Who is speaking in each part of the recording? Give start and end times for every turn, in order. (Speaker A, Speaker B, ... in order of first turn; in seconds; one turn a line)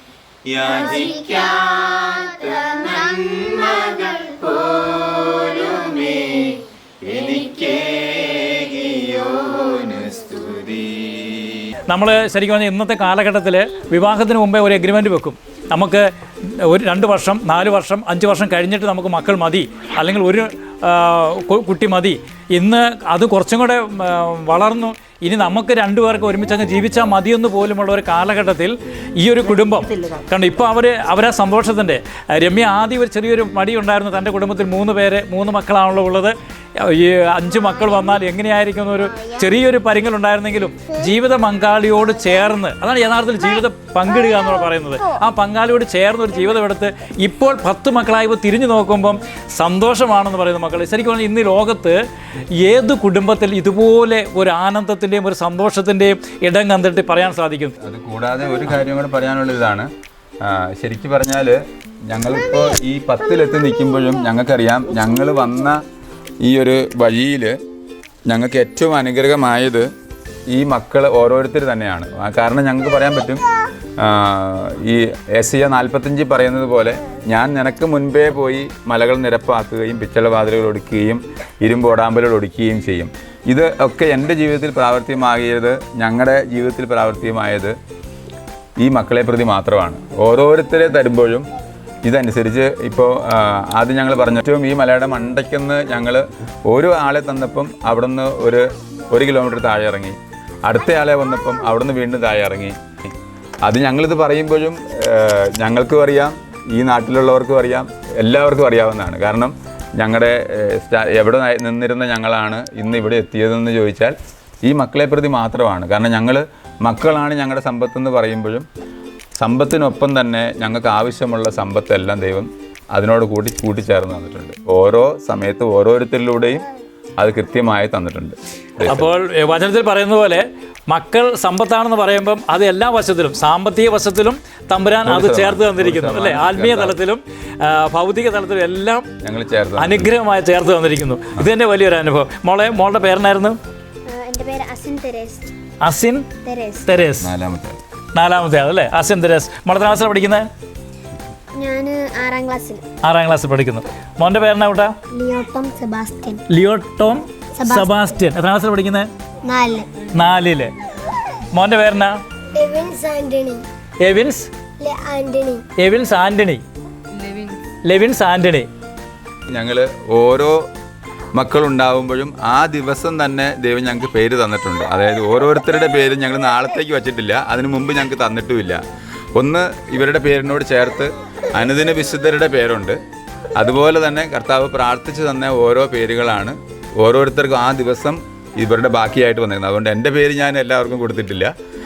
Speaker A: 0.5-11.6
Speaker B: 11.9-52.0
Speaker B: 52.6-57.8
Speaker A: 57.8-59.9
Speaker A: 60.4-65.8
Speaker A: 66.4-67.5
Speaker A: 68.3-69.9
Speaker A: 70.5-73.4
Speaker A: 74.0-87.7
Speaker A: 88.8-91.5
Speaker A: 92.0-103.1
Speaker A: 103.6-118.7
Speaker A: 119.4-126.6
Speaker A: 127.2-129.1
Speaker B: 128.8-139.1
Speaker A: 135.1-137.0
Speaker A: 139.2-140.1
Speaker B: 139.8-143.6
Speaker C: 144.1-145.5
Speaker B: 145.8-146.3
Speaker C: 146.4-146.8
Speaker B: 146.8-147.3
Speaker A: 147.2-147.8
Speaker B: 148.1-150.4
Speaker C: 151.6-152.8
Speaker B: 153.0-154.9
Speaker C: 155.1-156.4
Speaker B: 156.5-159.1
Speaker C: 157.6-157.9
Speaker C: 159.4-159.9
Speaker B: 160.1-160.7
Speaker B: 161.5-162.2
Speaker C: 162.5-163.6
Speaker B: 164.0-164.5
Speaker C: 164.8-165.7
Speaker B: 165.8-166.6
Speaker B: 167.8-168.7
Speaker A: 169.5-170.7
Speaker A: 171.3-178.8
Speaker A: 179.3-183.0
Speaker A: 183.6-191.5